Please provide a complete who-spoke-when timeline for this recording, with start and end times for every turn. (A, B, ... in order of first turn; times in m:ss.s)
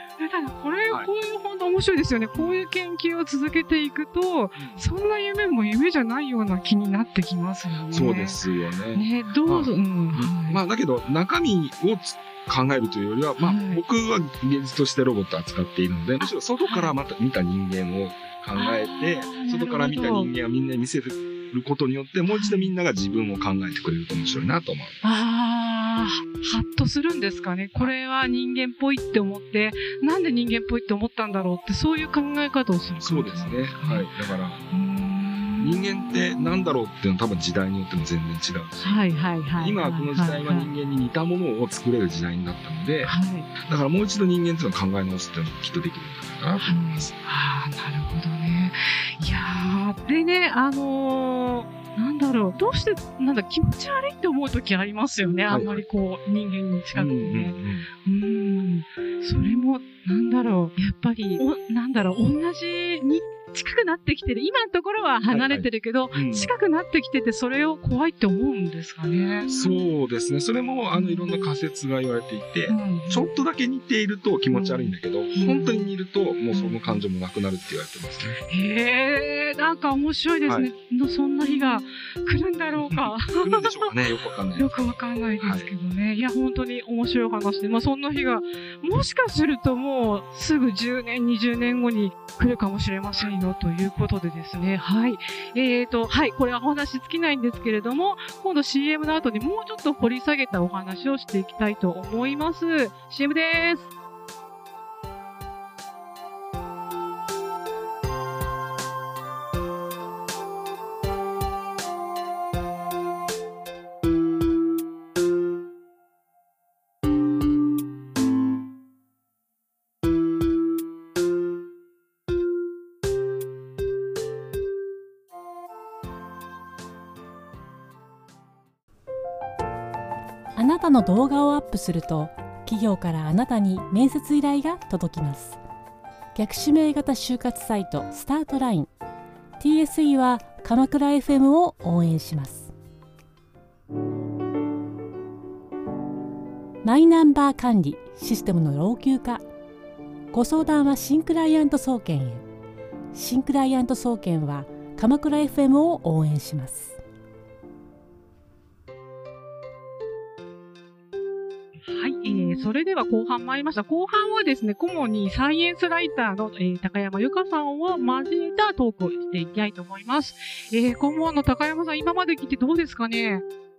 0:00.2-0:08.4 A
0:02.3-0:02.6 B
0:04.6-0:04.8 B
0:07.9-0:25.0 B
0:08.9-0:10.6 A
0:13.4-0:13.8 A
0:16.2-0:16.9 A
0:18.5-0:20.3 A
0:22.3-0:22.7 A
0:25.0-0:34.1 A
0:33.0-0:34.6 B
0:34.7-0:36.6 A
0:35.6-0:47.2 B
0:38.8-0:40.7 A
0:43.0-0:43.5 A
0:46.6-1:09.6 A
0:55.5-0:55.8 B
0:56.9-0:57.9 B
1:05.3-1:06.5 B
1:09.5-1:18.4 B
1:10.9-1:11.5 A
1:12.7-1:13.3 A
1:14.5-1:15.9 A
1:16.5-1:16.8 A
1:18.5-1:23.9 A
1:22.8-1:25.7 B
1:24.5-1:43.9 A
2:10.6-2:15.6 C
2:16.3-2:18.9 C
2:19.6-2:22.7 C
2:26.8-2:29.4 C
2:30.3-2:32.4 C
2:33.1-2:37.0 C
2:41.9-2:53.4 A